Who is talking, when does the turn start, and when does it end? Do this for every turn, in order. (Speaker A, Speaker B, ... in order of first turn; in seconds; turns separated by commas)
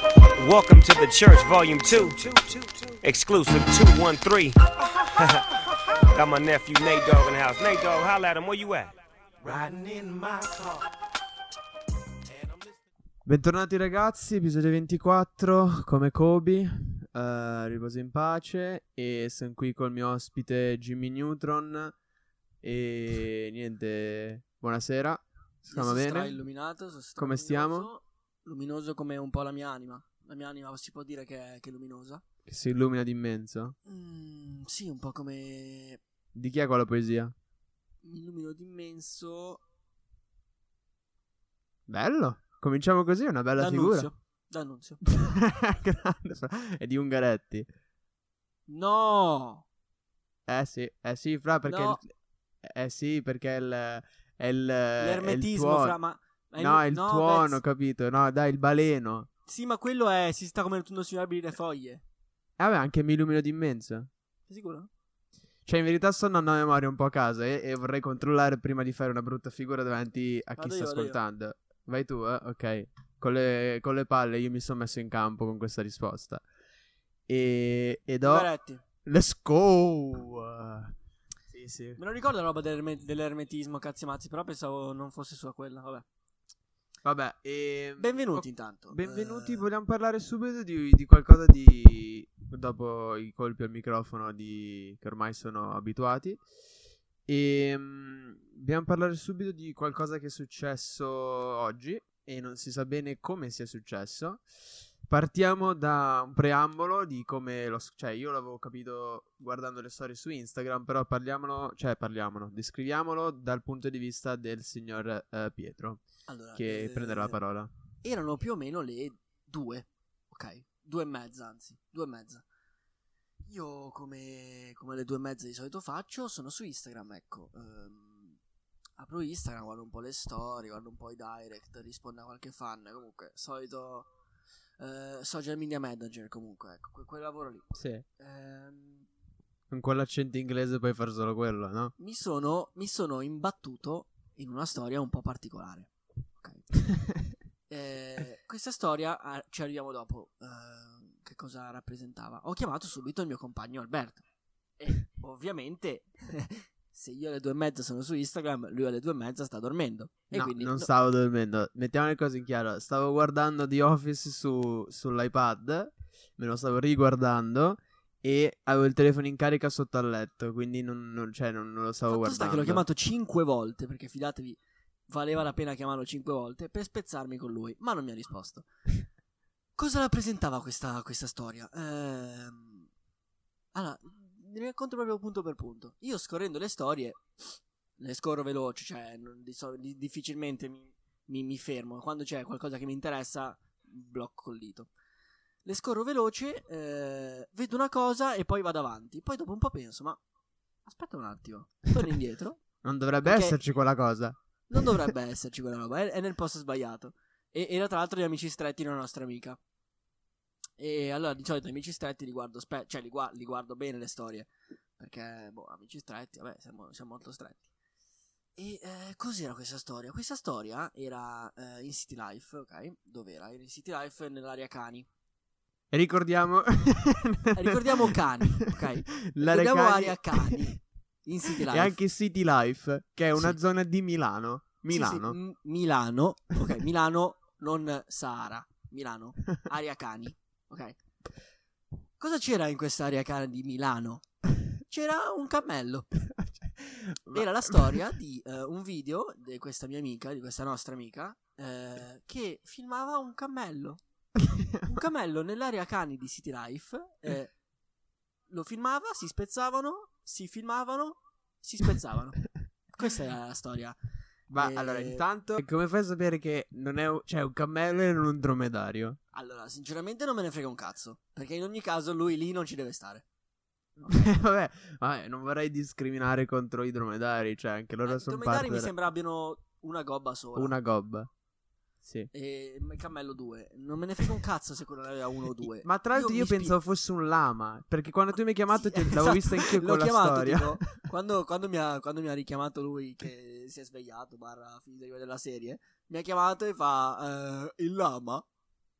Speaker A: 0.3-4.6, Speaker A: 5.2-5.4, Speaker A: 6.1-10.8, Speaker B: 13.2-21.9, Speaker B: 22.6-26.3, Speaker C: 25.7-32.2, Speaker B: 27.2-27.9, Speaker B: 32.5-33.8, Speaker C: 33.9-36.0, Speaker B: 36.3-37.3, Speaker C: 38.0-39.6, Speaker B: 41.9-44.1, Speaker C: 43.6-45.0, Speaker B: 45.0-47.7, Speaker C: 48.7-49.6, Speaker B: 50.5-52.0, Speaker C: 51.6-52.0, Speaker B: 52.6-56.0, Speaker C: 55.0-57.6, Speaker B: 56.6-59.3, Speaker C: 59.5-62.0, Speaker B: 62.6-64.1, Speaker C: 64.5-64.9, Speaker B: 65.7-76.4, Speaker C: 70.6-71.2, Speaker B: 77.3-78.5, Speaker C: 78.2-78.8, Speaker B: 79.0-80.9, Speaker B: 81.5-82.0, Speaker C: 82.0-86.0, Speaker B: 87.0-96.4, Speaker C: 88.0-89.6, Speaker B: 97.2-104.4, Speaker B: 105.0-116.0, Speaker C: 116.3-117.4, Speaker B: 116.5-117.7, Speaker C: 118.0-122.4, Speaker C: 123.4-128.4, Speaker C: 129.0-134.1, Speaker C: 134.8-139.1, Speaker B: 137.7-138.0, Speaker B: 139.7-141.9, Speaker C: 142.0-146.7, Speaker B: 146.8-147.1, Speaker C: 147.7-154.2, Speaker C: 154.8-160.9, Speaker B: 160.3-172.8, Speaker C: 172.1-178.7, Speaker C: 179.8-182.9, Speaker C: 183.7-194.9, Speaker C: 195.6-200.2, Speaker C: 200.8-202.6, Speaker B: 202.8-205.1, Speaker C: 203.2-203.6, Speaker C: 204.7-209.6, Speaker C: 210.8-217.6, Speaker C: 218.6-225.1, Speaker B: 225.9-230.8, Speaker C: 227.5-232.0, Speaker B: 231.5-235.3, Speaker C: 234.9-241.0, Speaker C: 242.2-244.2, Speaker C: 244.8-246.1, Speaker B: 246.2-248.0, Speaker C: 247.3-254.0, Speaker B: 254.4-255.0, Speaker C: 254.9-257.5, Speaker C: 258.5-264.0, Speaker B: 264.5-269.2, Speaker C: 264.6-265.2, Speaker C: 269.3-273.2, Speaker C: 274.0-274.2, Speaker B: 274.1-278.9, Speaker C: 278.0-280.7, Speaker B: 280.5-281.3, Speaker B: 282.0-282.3, Speaker C: 282.3-286.7, Speaker B: 285.6-290.9, Speaker C: 288.7-298.4